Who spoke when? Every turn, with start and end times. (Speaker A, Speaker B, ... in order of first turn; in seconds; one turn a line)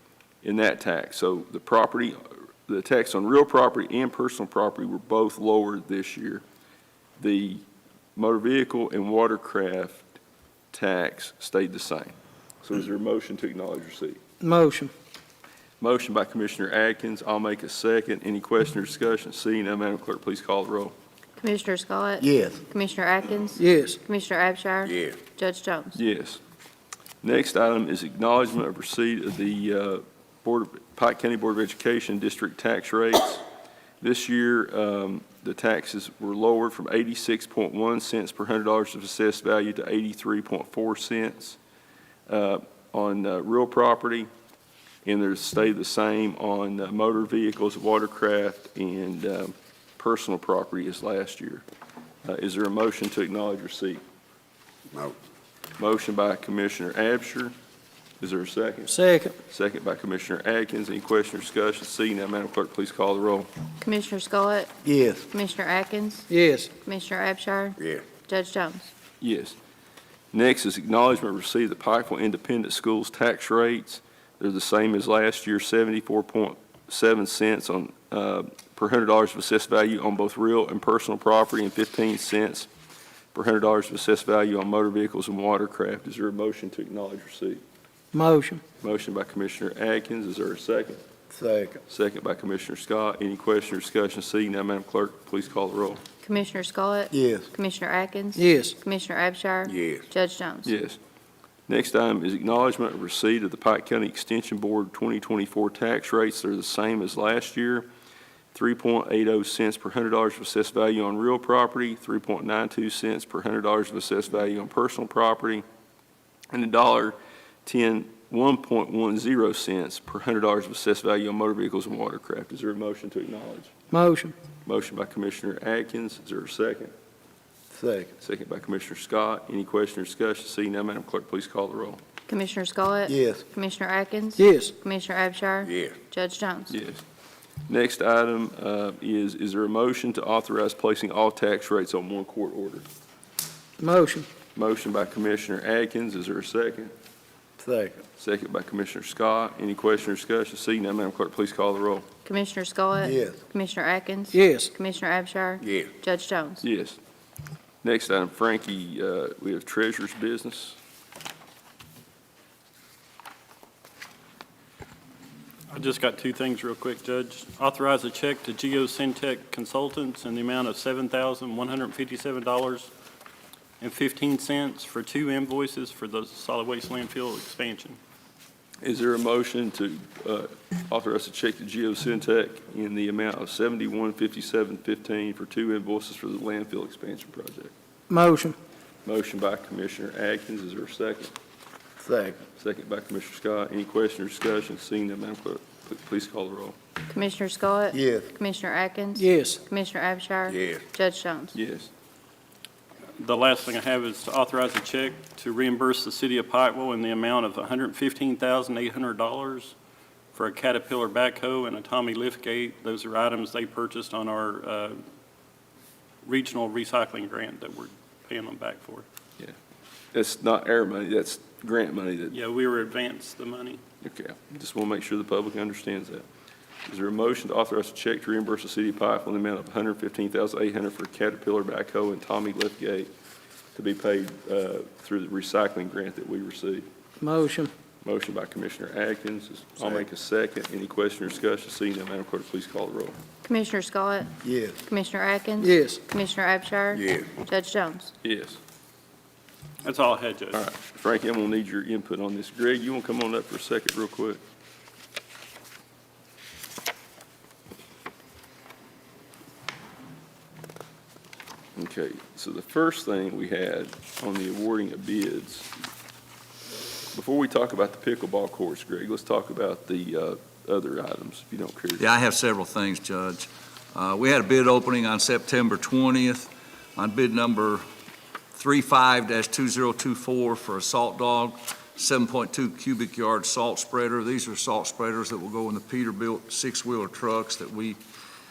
Speaker A: 0.4-6.4
Speaker A: 7.2-7.6
Speaker A: 8.1-10.0
Speaker A: 10.7-14.2
Speaker B: 14.4-14.8
Speaker A: 15.8-20.9
Speaker C: 21.4-26.0
Speaker D: 22.2-22.6
Speaker A: 25.9-26.4
Speaker A: 27.2-33.4
Speaker A: 34.0-41.6
Speaker A: 42.3-44.3
Speaker A: 45.0-51.6
Speaker A: 52.2-54.0
Speaker A: 55.8-57.5
Speaker A: 58.2-63.5
Speaker C: 63.8-64.7
Speaker D: 64.8-65.2
Speaker C: 65.3-66.3
Speaker B: 66.3-66.6
Speaker C: 66.8-68.9
Speaker A: 69.2-69.5
Speaker A: 70.3-82.7
Speaker A: 83.3-87.6
Speaker B: 88.2-88.5
Speaker A: 88.8-91.0
Speaker D: 91.3-91.8
Speaker A: 91.9-96.0
Speaker C: 96.2-100.7
Speaker D: 97.1-97.5
Speaker A: 100.6-101.0
Speaker A: 101.7-107.9
Speaker A: 108.5-115.6
Speaker A: 116.5-123.7
Speaker B: 123.9-124.2
Speaker A: 124.6-126.9
Speaker D: 127.7-128.1
Speaker A: 128.2-132.0
Speaker C: 132.3-136.7
Speaker D: 133.1-133.4
Speaker A: 136.7-137.0
Speaker A: 137.7-142.9
Speaker B: 143.8-144.2
Speaker A: 144.5-146.9
Speaker D: 147.6-148.0
Speaker A: 148.2-152.1
Speaker C: 152.2-156.6
Speaker D: 153.0-153.4
Speaker A: 156.6-157.0
Speaker A: 157.8-160.8
Speaker E: 165.7-172.9
Speaker E: 173.8-178.0
Speaker A: 178.8-187.7
Speaker B: 188.1-188.5
Speaker A: 189.0-191.3
Speaker D: 192.0-192.4
Speaker A: 192.6-196.8
Speaker C: 197.1-201.6
Speaker D: 197.9-198.3
Speaker B: 199.2-199.5
Speaker A: 201.5-201.9
Speaker E: 203.2-209.7
Speaker E: 210.3-215.0
Speaker E: 216.2-219.0
Speaker A: 220.1-222.3
Speaker E: 222.3-223.8
Speaker A: 224.0-226.2
Speaker A: 226.9-233.1
Speaker A: 233.7-236.8
Speaker B: 237.2-237.7
Speaker A: 238.0-243.2
Speaker C: 243.4-248.1
Speaker D: 244.4-244.8
Speaker B: 245.6-245.9
Speaker A: 248.2-248.6
Speaker E: 249.8-250.6
Speaker A: 250.5-254.4
Speaker A: 261.8-265.7
Speaker A: 267.1-272.1
Speaker F: 272.0-277.8
Speaker F: 278.5-288.0